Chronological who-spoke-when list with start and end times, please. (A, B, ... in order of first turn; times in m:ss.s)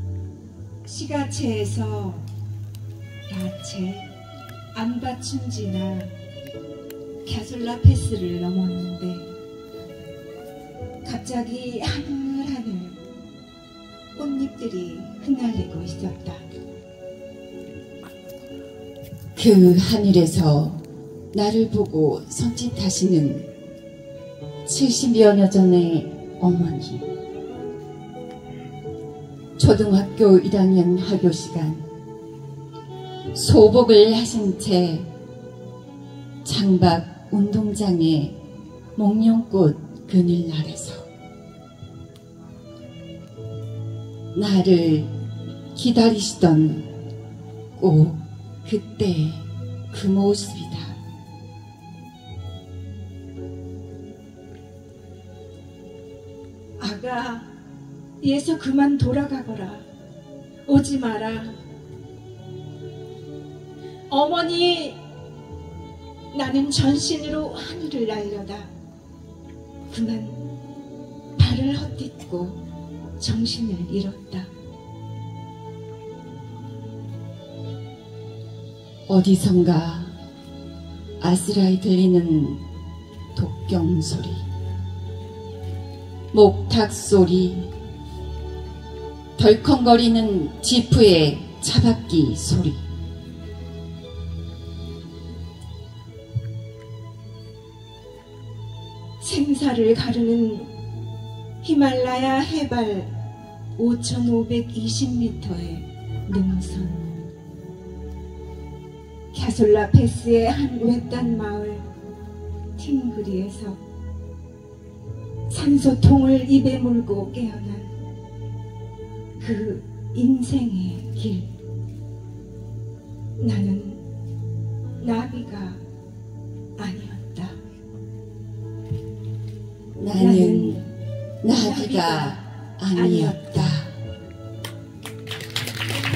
0:00.8-0:02.3 A
0:03.3-0:04.0 A
0:04.7-0:06.1 A
0:07.2-0:09.3 A
0:11.0-0:13.0 A
0:14.2-0:16.4 A
0:19.4-0:20.8 B
0:21.3-0:23.5 B
0:24.6-0:27.1 B
0:29.6-0:31.8 B
0:33.3-0:35.1 B
0:36.4-0:38.4 B
0:39.0-0:41.1 B
0:44.3-0:45.1 B
0:45.8-0:46.9 B
0:47.8-0:51.0 B
0:56.8-0:57.5 A
0:58.2-0:59.8 A
1:00.7-1:01.6 A
1:04.1-1:05.0 A
1:06.3-1:08.7 A
1:09.9-1:10.4 A
1:11.4-1:12.6 A
1:13.2-1:14.5 A
1:19.1-1:20.1 B
1:21.2-1:22.6 B
1:23.3-1:24.4 B
1:26.3-1:27.7 B
1:29.4-1:32.8 B
1:39.2-1:40.7 A
1:41.6-1:43.1 A
1:43.8-1:47.2 A
1:49.3-1:51.8 A
1:52.8-1:53.8 A
1:55.5-1:57.9 A
1:59.4-2:01.5 A
2:03.4-2:04.0 A
2:05.0-2:05.8 A
2:06.8-2:07.6 A
2:10.0-2:10.8 B
2:10.1-2:10.9 A
2:11.4-2:13.9 B
2:11.5-2:13.8 A